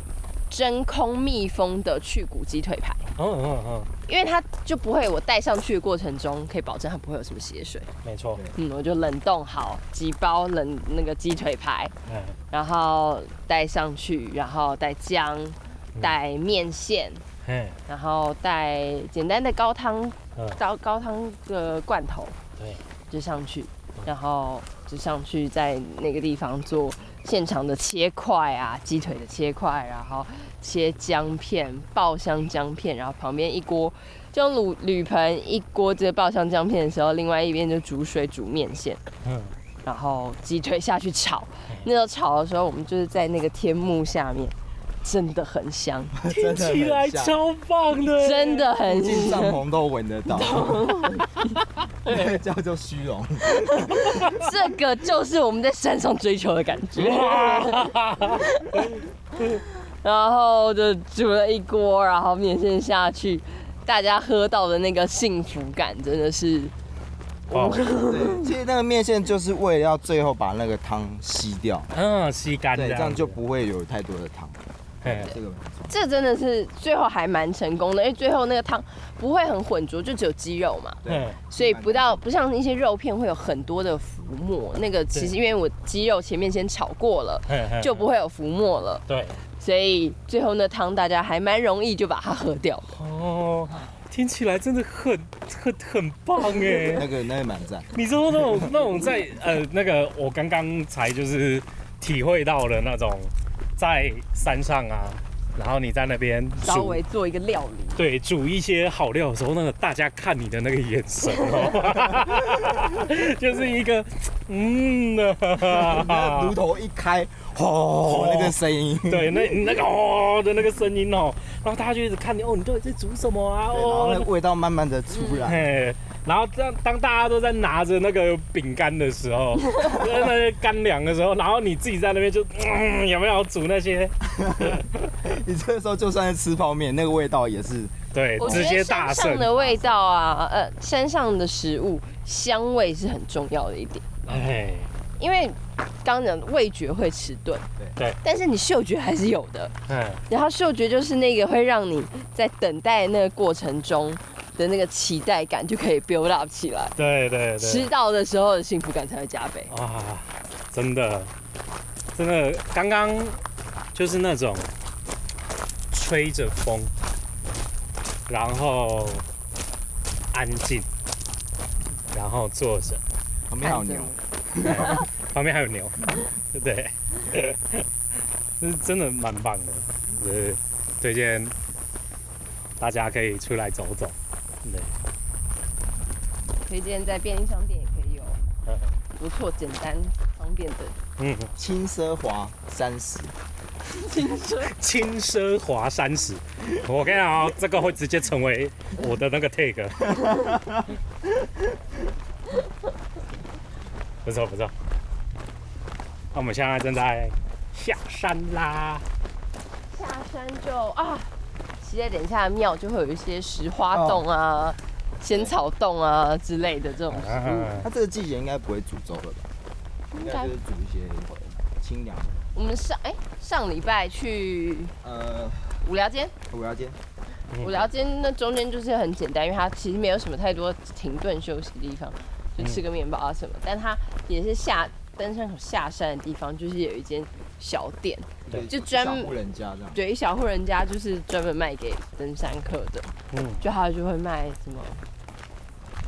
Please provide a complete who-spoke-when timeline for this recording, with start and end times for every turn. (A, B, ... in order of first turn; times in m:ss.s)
0:00.5-0:03.0 A
0:03.2-0:03.9 B
0:04.1-0:07.9 A
0:08.0-0:08.4 B
0:08.5-0:11.9 A
0:12.1-0:12.4 B
0:12.5-0:17.2 A
0:17.4-0:17.8 B
0:17.9-0:22.4 A
0:23.1-0:39.0 A
0:39.2-0:39.5 B
0:39.8-0:46.2 A
0:46.1-0:47.4 C
0:46.3-0:48.8 B
0:48.2-0:49.6 A
0:48.8-0:51.0 C
0:50.3-0:51.5 A
0:52.0-0:54.4 C
0:52.0-0:52.3 B
0:53.4-1:06.7 A
0:56.9-0:58.9 B
1:07.5-1:08.5 A
1:07.5-1:07.9 B
1:08.0-1:11.9 C
1:11.9-1:13.4 B
1:12.7-1:15.9 C
1:15.0-1:15.3 B
1:15.9-1:29.0 A
1:21.0-1:22.2 C
1:21.1-1:21.4 B
1:27.5-1:28.0 B
1:29.1-1:29.4 B
1:29.6-1:33.0 A
1:33.0-1:37.1 B
1:36.8-1:38.0 C
1:37.9-1:47.0 B
1:46.6-1:48.0 A
1:48.0-1:56.6 B
1:51.3-1:51.7 A
1:55.6-1:59.6 C
1:57.6-2:04.3 B
2:03.7-2:05.7 C
2:05.1-2:05.5 A
2:05.4-2:15.1 B
2:14.3-2:17.9 C
2:18.1-2:19.8 B
2:18.4-2:24.0 A
2:24.2-2:24.9 B
2:25.2-2:27.7 A
2:28.2-2:29.7 A
2:29.9-2:30.2 B
2:30.3-2:36.9 A
2:37.0-2:37.9 B
2:37.6-2:39.7 A
2:39.7-2:41.3 B
2:42.1-2:43.4 B
2:43.9-2:44.7 B
2:45.9-2:46.9 B
2:48.3-2:49.2 B
2:50.3-2:50.9 B
2:52.1-2:53.0 B
2:53.5-2:55.0 C
2:53.6-2:54.2 A
2:54.7-2:57.8 B
2:58.6-3:01.5 B
3:02.8-3:04.9 B
3:06.7-3:08.4 A
3:08.6-3:08.9 B
3:09.1-3:11.0 A
3:11.2-3:11.5 B
3:11.6-3:13.4 C
3:13.9-3:14.7 A
3:14.7-3:20.3 B
3:20.2-3:20.8 C
3:24.2-3:24.7 B
3:26.3-3:29.0 B
3:29.9-3:31.3 A
3:31.8-3:37.8 A
3:33.9-3:34.2 C
3:37.1-3:37.9 B
3:37.8-3:39.5 C
3:40.1-3:40.5 A
3:40.1-3:42.5 C
3:42.5-3:45.0 A
3:45.0-3:45.8 C
3:45.8-3:46.3 A
3:46.5-3:47.0 C
3:47.5-3:47.8 B
3:47.6-3:59.3 A
3:58.5-4:00.0 C
3:59.9-4:05.0 A
4:03.3-4:03.6 B